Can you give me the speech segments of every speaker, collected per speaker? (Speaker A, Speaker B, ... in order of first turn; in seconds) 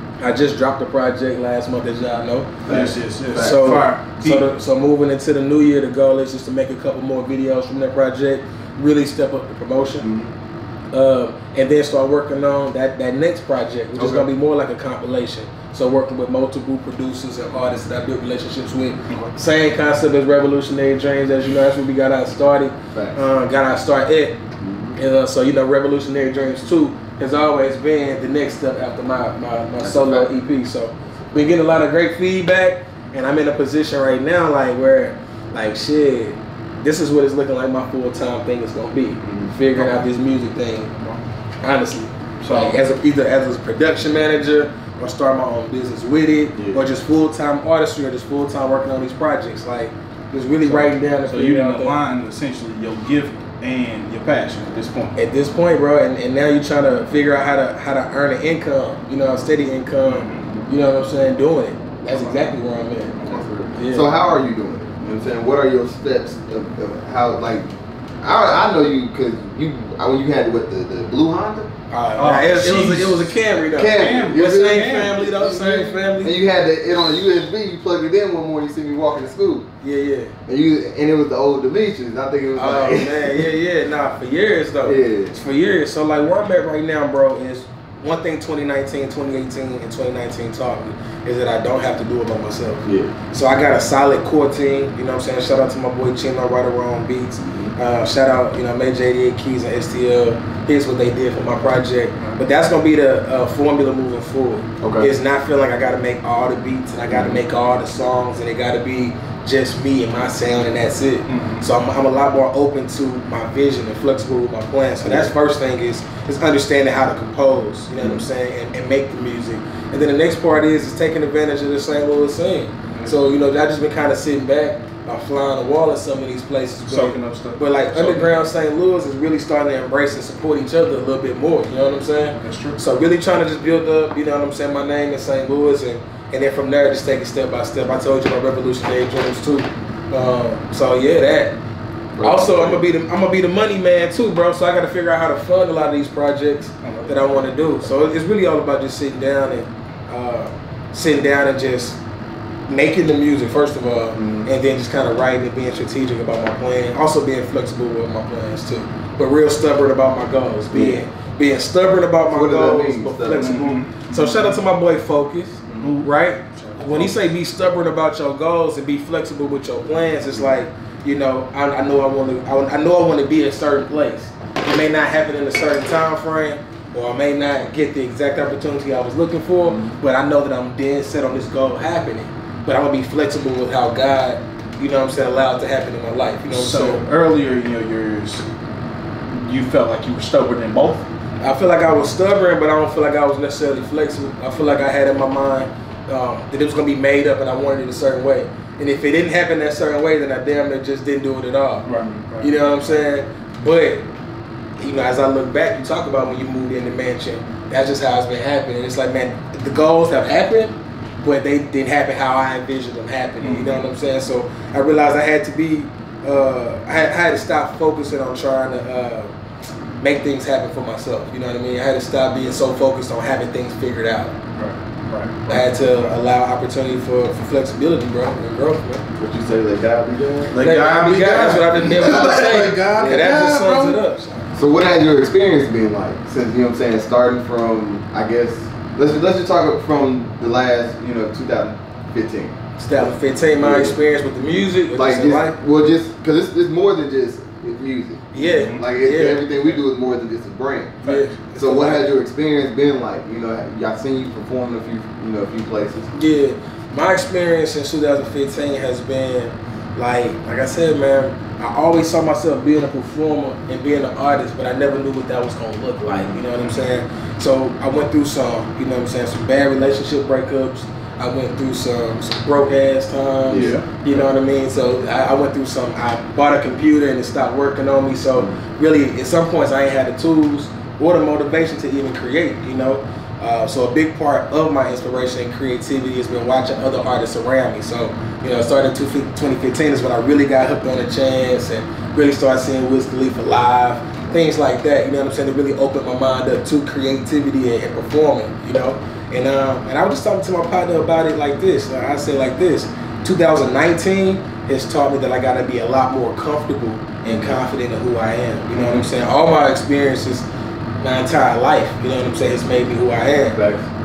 Speaker A: 0.2-2.6, 3.4-10.1, 10.9-24.4, 25.0-40.9, 41.6-52.0, 55.1-63.2, 63.7-64.1, 71.9-76.4, 79.8-80.3, 82.6-141.6, 142.2-152.0, 152.7-187.0, 191.4-201.9, 202.4-204.1, 204.8-219.3, 220.0-224.4, 225.5-229.0, 230.6-234.5, 242.8-245.6, 248.3-249.4, 251.0-252.1, 256.1-310.5, 311.0-313.6
Speaker B: 2.6-3.8, 10.0-10.3, 22.9-23.2, 24.6-25.0, 29.8-30.4, 39.2-39.5, 46.5-46.8, 63.2-71.7, 73.8-74.8, 76.2-79.7, 80.5-83.5, 84.8-85.4, 92.8-93.2, 97.4-97.7, 104.8-105.1, 107.1-107.4, 115.0-115.3, 118.0-118.2, 142.2-142.8, 154.2-154.5, 160.7-161.0, 162.3-163.7, 179.7-179.9, 229.2-230.6, 232.8-233.9, 234.6-243.0, 243.6-244.0, 244.9-251.0, 251.6-256.1, 266.1-266.4, 273.5-273.8, 278.4-278.6, 307.3-307.6, 313.4-313.9
Speaker C: 2.7-4.5, 13.9-14.3, 19.1-19.3, 39.7-40.0, 40.9-41.2, 42.4-42.8, 50.6-55.2, 60.0-60.6, 62.1-62.5, 72.2-73.3, 73.9-76.0, 111.3-111.7, 122.9-123.2, 126.9-128.3, 132.4-132.8, 146.8-147.4, 163.3-164.6, 165.7-167.2, 186.5-188.4, 189.3-191.1, 201.9-202.6, 213.4-213.8, 224.6-225.7, 230.5-233.9, 248.4-248.9, 251.0-251.4, 266.6-266.8, 273.5-273.8, 308.7-309.1